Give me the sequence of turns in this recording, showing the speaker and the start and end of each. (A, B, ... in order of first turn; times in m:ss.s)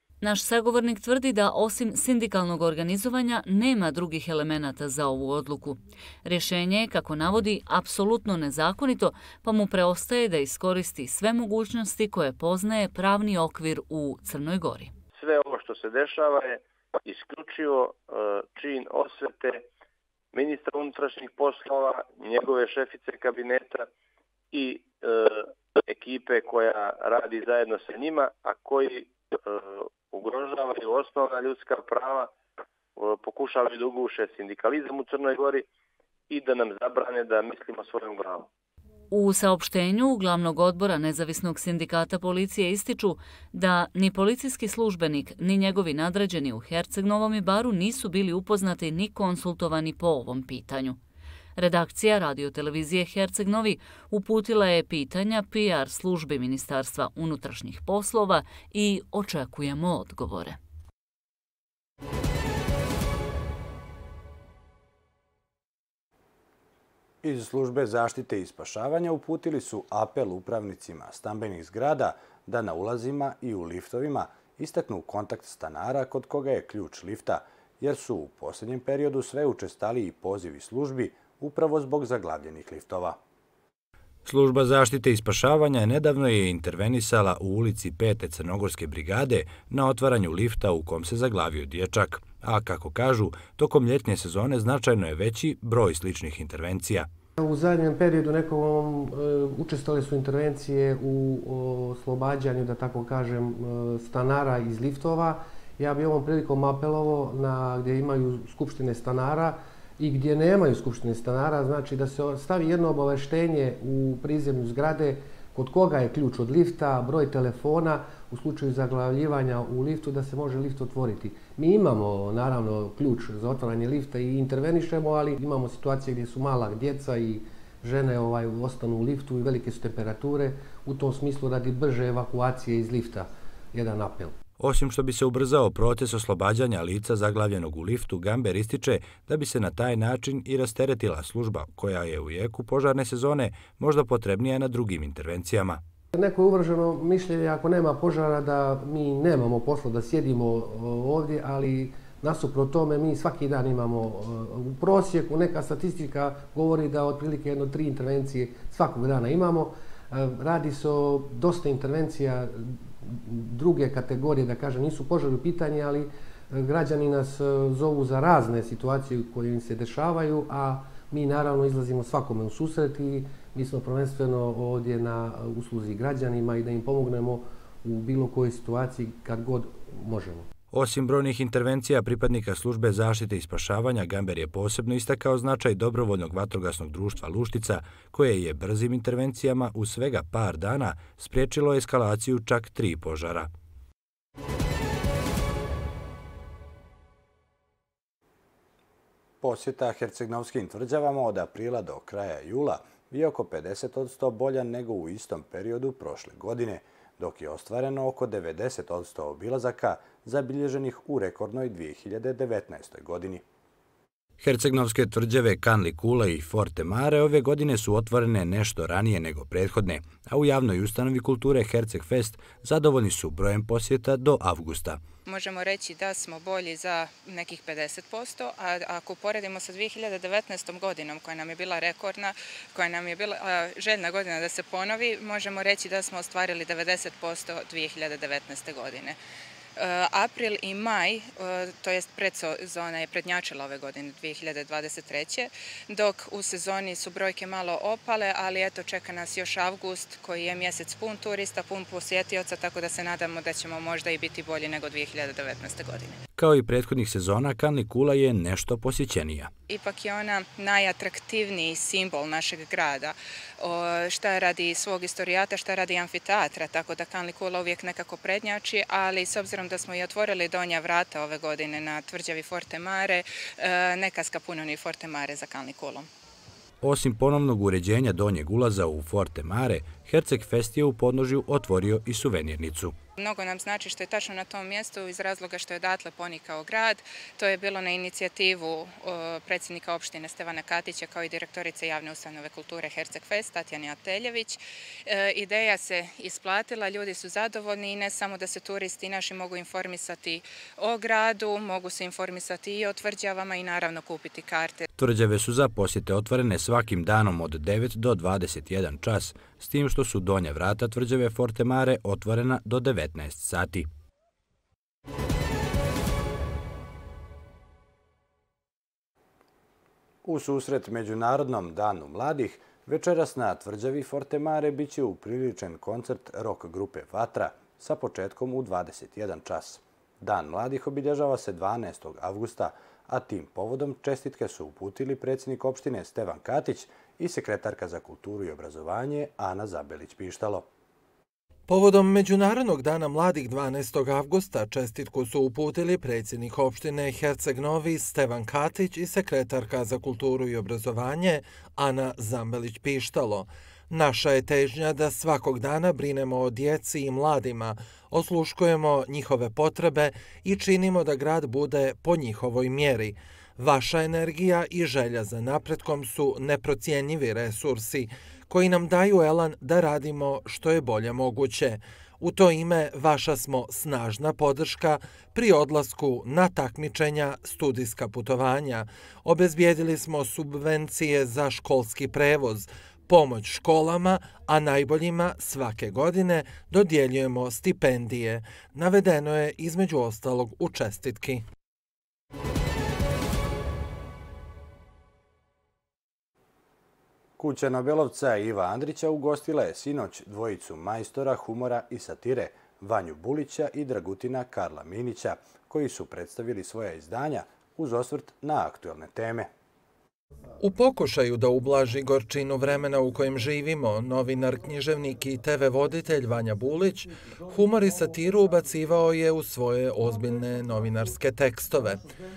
0:00.2-0:14.9 A
0:15.2-0:19.6 B
0:20.3-0:23.9 B
0:24.5-0:32.3 B
0:33.0-0:35.7 B
0:36.3-0:38.5 B
0:39.1-0:51.0 A
0:51.6-1:00.6 A
1:07.2-1:23.2 C
1:24.2-1:37.1 C
1:37.4-2:14.4 D
2:14.6-2:25.8 C
2:26.1-3:00.5 D
3:00.7-3:13.5 C
3:19.4-3:33.4 C
3:34.4-3:45.0 C
3:45.2-3:59.2 E
3:59.8-4:16.2 E
4:16.4-4:19.5 C
4:19.7-4:36.1 E
4:36.8-4:43.0 C
4:43.2-5:04.9 E
5:05.0-5:13.9 C
5:20.2-5:40.7 C
5:41.7-6:31.4 F
6:37.4-6:49.5 C
6:50.6-7:02.0 F